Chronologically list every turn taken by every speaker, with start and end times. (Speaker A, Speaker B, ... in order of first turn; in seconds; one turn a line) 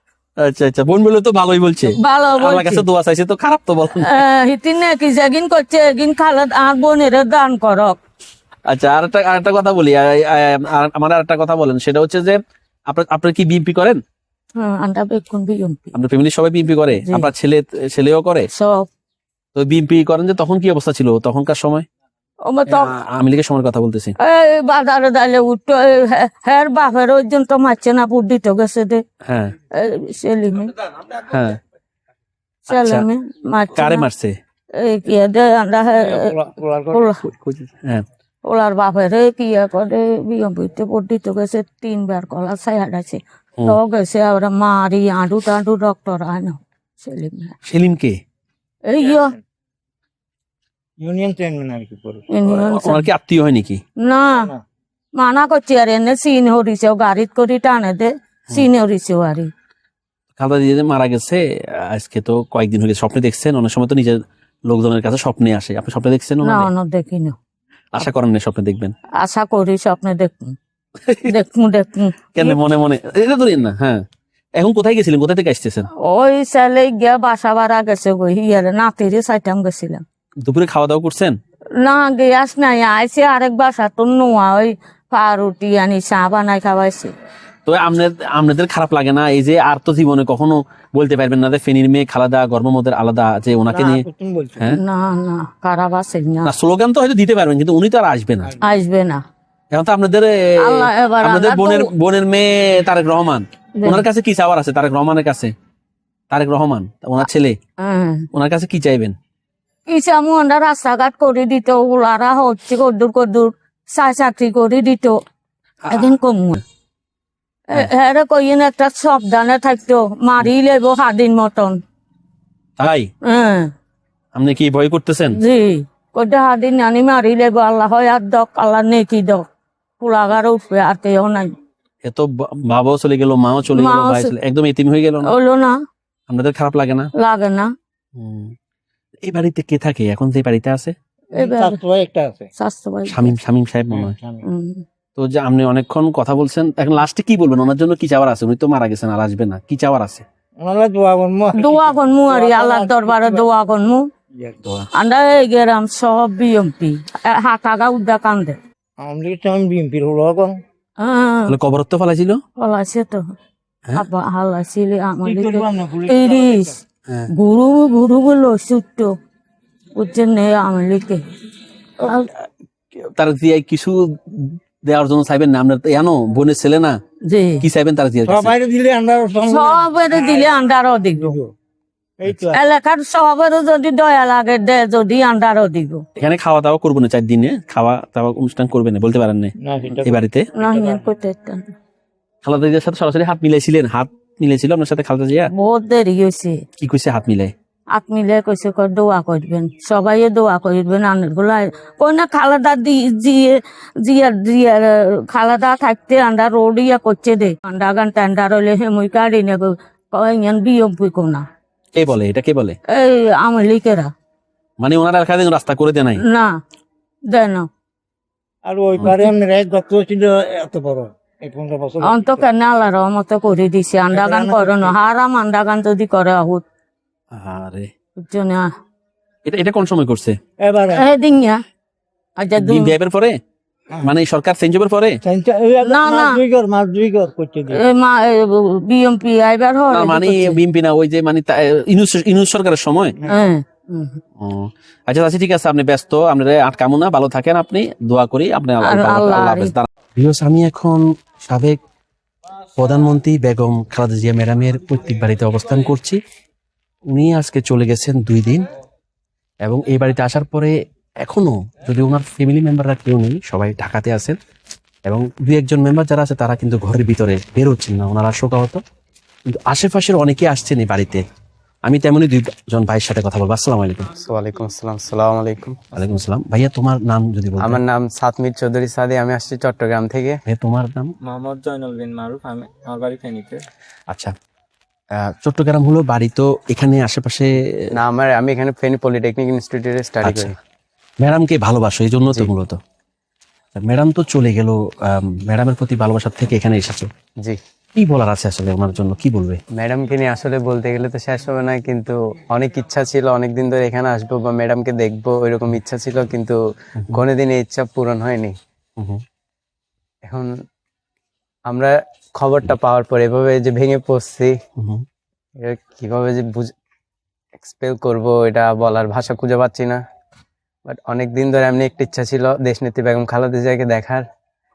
Speaker A: 0.4-4.2
Speaker B: 2.0-2.9
Speaker B: 4.0-8.0
Speaker A: 8.7-14.0
Speaker B: 14.6-15.9
Speaker A: 15.9-18.5
Speaker B: 16.9-17.3
Speaker B: 18.5-18.9
Speaker A: 19.5-21.9
Speaker B: 22.4-22.9
Speaker A: 22.7-24.1
Speaker B: 24.2-29.0
Speaker A: 29.2-29.5
Speaker B: 29.7-30.8
Speaker A: 31.1-31.6
Speaker A: 32.7-33.1
Speaker B: 32.7-34.1
Speaker A: 33.8-34.3
Speaker B: 34.7-36.2
Speaker C: 36.0-37.1
Speaker B: 37.0-37.2
Speaker A: 37.2-38.0
Speaker B: 38.4-47.5
Speaker A: 47.6-48.2
Speaker B: 48.9-49.4
Speaker C: 49.0-49.3
Speaker C: 51.0-52.2
Speaker B: 52.3-53.1
Speaker A: 52.4-53.8
Speaker B: 54.0-54.5
Speaker B: 55.1-59.5
Speaker A: 60.4-66.7
Speaker B: 66.4-67.3
Speaker A: 67.9-68.9
Speaker B: 69.1-70.5
Speaker A: 71.0-71.3
Speaker B: 71.3-72.6
Speaker A: 72.3-74.0
Speaker A: 74.6-75.9
Speaker B: 76.0-80.0
Speaker A: 80.4-81.4
Speaker B: 81.8-87.1
Speaker A: 87.7-94.0
Speaker C: 93.7-94.6
Speaker B: 94.8-96.5
Speaker A: 96.4-98.5
Speaker B: 98.6-99.2
Speaker A: 99.7-105.5
Speaker B: 100.6-101.9
Speaker A: 106.3-107.5
Speaker B: 107.8-108.3
Speaker A: 108.3-109.1
Speaker B: 109.9-115.2
Speaker A: 115.8-116.1
Speaker B: 115.9-116.6
Speaker B: 117.7-121.8
Speaker A: 122.8-123.1
Speaker B: 123.2-123.7
Speaker A: 124.3-125.4
Speaker B: 125.4-129.5
Speaker B: 130.0-131.6
Speaker A: 132.0-135.3
Speaker B: 133.8-134.3
Speaker B: 135.3-135.8
Speaker A: 136.3-137.1
Speaker B: 137.2-137.7
Speaker A: 138.2-138.5
Speaker A: 139.2-140.9
Speaker C: 141.3-142.5
Speaker B: 141.4-141.8
Speaker B: 142.6-143.3
Speaker A: 143.1-144.1
Speaker C: 143.9-144.4
Speaker B: 144.5-144.8
Speaker A: 145.2-150.2
Speaker C: 150.6-153.4
Speaker B: 151.5-154.1
Speaker C: 154.3-154.6
Speaker B: 154.9-158.6
Speaker C: 159.0-160.6
Speaker B: 161.0-161.5
Speaker A: 161.5-162.4
Speaker B: 162.6-163.3
Speaker B: 164.0-166.7
Speaker C: 165.2-166.8
Speaker B: 167.3-169.1
Speaker B: 169.9-171.2
Speaker A: 173.0-176.9
Speaker B: 177.2-177.6
Speaker A: 177.6-178.5
Speaker C: 178.2-180.6
Speaker B: 179.5-181.3
Speaker C: 181.1-181.5
Speaker C: 182.2-182.6
Speaker B: 182.6-186.0
Speaker A: 186.2-190.5
Speaker C: 189.6-191.0
Speaker B: 190.6-191.7
Speaker A: 192.4-195.5
Speaker B: 195.5-196.6
Speaker A: 196.8-197.5
Speaker B: 197.9-211.5
Speaker A: 211.9-212.8
Speaker B: 212.9-214.1
Speaker A: 214.8-216.2
Speaker B: 216.2-216.5
Speaker B: 217.3-217.7
Speaker C: 218.6-222.5
Speaker B: 222.0-226.6
Speaker C: 224.1-225.0
Speaker A: 227.3-227.9
Speaker B: 228.2-228.7
Speaker A: 229.4-230.3
Speaker C: 230.6-231.1
Speaker B: 231.0-231.6
Speaker B: 232.4-232.9
Speaker A: 232.6-233.4
Speaker A: 234.0-235.2
Speaker C: 235.2-237.8
Speaker B: 235.8-236.4
Speaker B: 237.7-240.6
Speaker A: 239.9-243.2
Speaker C: 243.2-243.5
Speaker B: 243.3-244.2
Speaker A: 244.4-251.8
Speaker B: 248.8-249.7
Speaker A: 252.8-256.2
Speaker A: 257.1-258.7
Speaker A: 259.6-264.4
Speaker A: 265.1-268.8
Speaker A: 269.5-271.2
Speaker A: 271.9-274.1
Speaker D: 274.1-276.0
Speaker A: 275.9-277.8
Speaker D: 277.6-280.4
Speaker A: 280.5-281.1
Speaker E: 281.2-283.6
Speaker A: 285.2-287.9
Speaker D: 287.9-290.5
Speaker A: 290.2-290.5
Speaker A: 291.2-292.8
Speaker A: 293.7-297.1
Speaker A: 297.9-299.6
Speaker D: 299.8-306.6
Speaker D: 307.1-308.5
Speaker D: 311.7-314.5
Speaker A: 314.8-315.0
Speaker D: 315.6-316.7
Speaker D: 317.6-320.0
Speaker D: 320.9-324.2